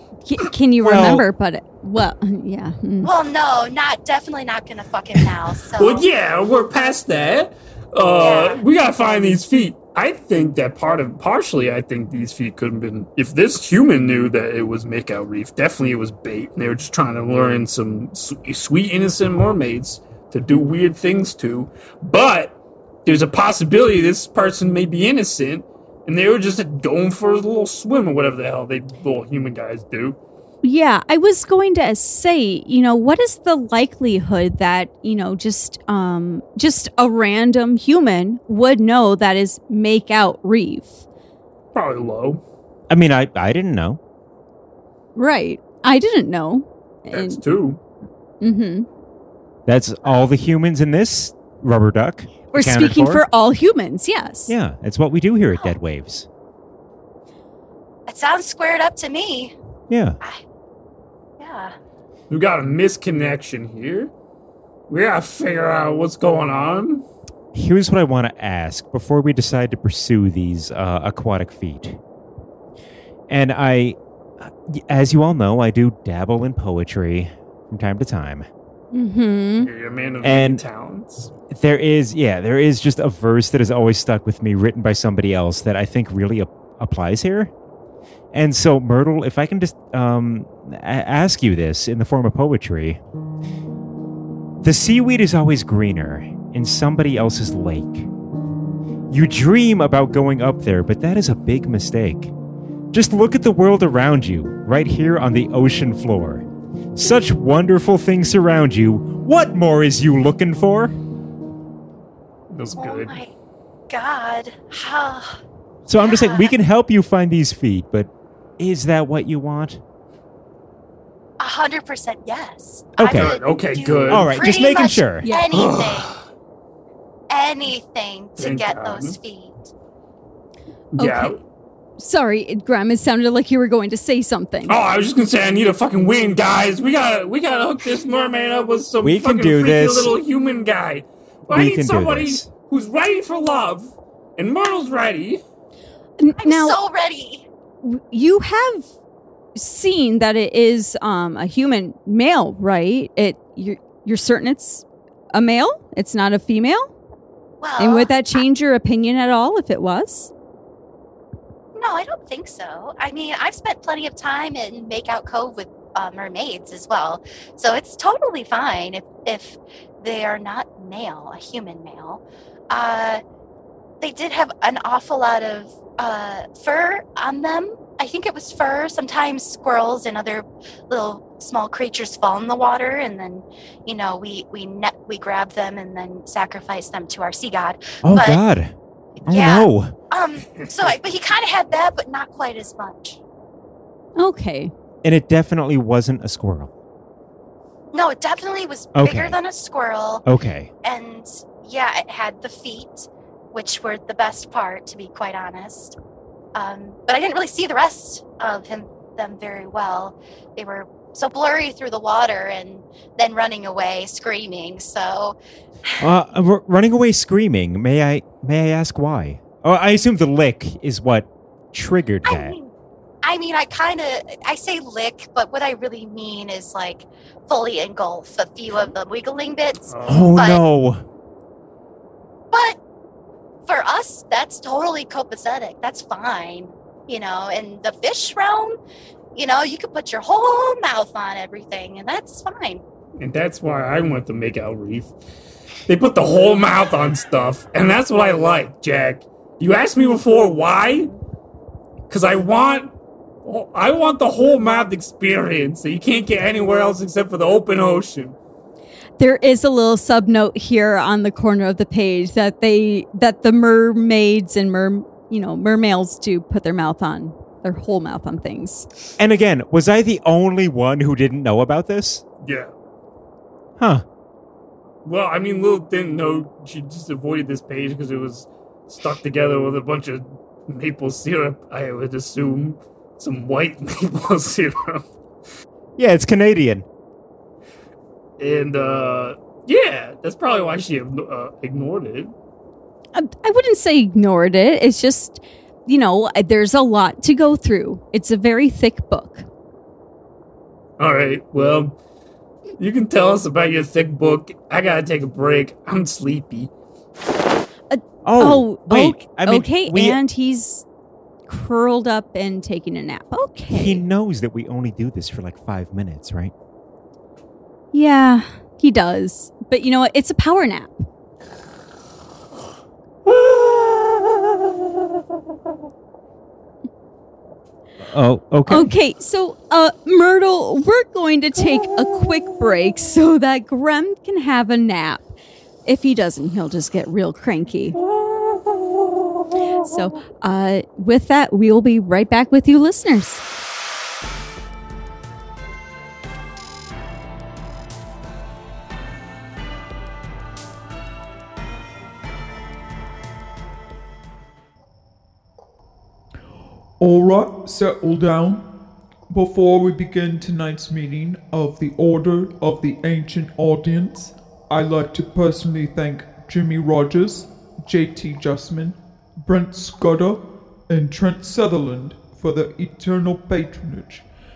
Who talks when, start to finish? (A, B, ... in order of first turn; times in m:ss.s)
0:00.3-0:03.1 A
0:00.8-0:01.3 B
0:03.0-0:06.1 C
0:05.8-0:30.2 D
0:08.0-0:08.6 C
0:30.6-0:41.0 A
0:41.7-0:42.4 D
0:42.9-0:44.0 B
0:45.2-0:47.4 A
0:47.1-0:47.8 D
0:48.4-0:48.9 A
0:49.7-0:53.2 B
0:52.5-0:54.5 A
0:54.5-0:56.3 B
0:58.1-0:59.5 C
0:59.9-1:00.2 B
1:01.4-1:01.7 C
1:02.3-1:04.1 D
1:04.9-1:07.1 D
1:07.5-1:12.0 B
1:13.3-1:18.5 B
1:18.9-1:19.7 A
1:19.6-1:21.3 D
1:20.2-1:20.6 B
1:21.5-1:27.5 B
1:28.3-1:33.0 B
1:34.6-1:38.1 B
1:39.1-1:42.3 B
1:42.9-1:51.0 B
1:52.5-1:53.2 D
1:52.7-1:53.3 C
1:53.9-1:55.4 C
1:55.9-1:59.8 B
1:56.0-1:56.5 C
2:01.4-2:06.1 C
2:03.0-2:03.4 B
2:03.0-2:04.4 D
2:04.1-2:05.3 B
2:05.2-2:05.5 A
2:05.5-2:06.2 D
2:07.3-2:09.7 C
2:08.4-2:09.2 D
2:11.0-2:11.4 D
2:11.0-2:11.4 A
2:12.0-2:14.8 A
2:14.7-2:25.4 D
2:19.0-2:20.1 B
2:21.5-2:22.5 B
2:26.2-2:26.8 A
2:26.4-2:27.5 C
2:27.8-2:28.9 A
2:29.6-2:36.9 A
2:37.6-2:38.4 C
2:37.8-2:40.3 A
2:41.8-2:53.2 C
2:54.0-3:08.4 C
3:08.0-3:08.7 B
3:09.2-3:09.9 B
3:09.3-3:13.2 C
3:10.6-3:10.9 D
3:14.2-3:14.7 A
3:15.0-3:16.7 B
3:17.9-3:20.2 C
3:19.0-3:19.4 B
3:20.2-3:20.7 B
3:20.8-3:26.0 C
3:26.6-3:35.4 C
3:36.0-3:42.6 B
3:42.2-3:42.7 C
3:43.2-3:50.6 C
3:49.9-3:50.4 D
3:50.1-3:51.0 B
3:52.5-3:52.8 C
3:53.7-3:58.8 C
3:59.4-4:02.8 C
4:03.2-4:05.1 D
4:05.9-4:11.1 D
4:12.1-4:12.9 D
4:13.4-4:18.4 D
4:19.2-4:28.9 A
4:29.2-4:32.2 B
4:32.4-4:32.7 D
4:33.8-4:34.0 B
4:35.0-4:45.0 D
4:46.0-4:46.9 B
4:48.4-4:52.3 D
4:53.2-4:59.5 A
5:01.0-5:02.0 D
5:02.8-5:06.7 D
5:07.9-5:10.8 A
5:08.2-5:10.2 B
5:11.5-5:14.0 A
5:13.7-5:16.5 B
5:17.9-5:21.1 A
5:23.3-5:24.1 D
5:28.0-5:28.9 B
5:28.7-5:35.3 A
5:35.8-5:38.0 A
5:39.8-5:43.4 A
5:57.0-5:58.7 E
5:59.3-6:14.2 E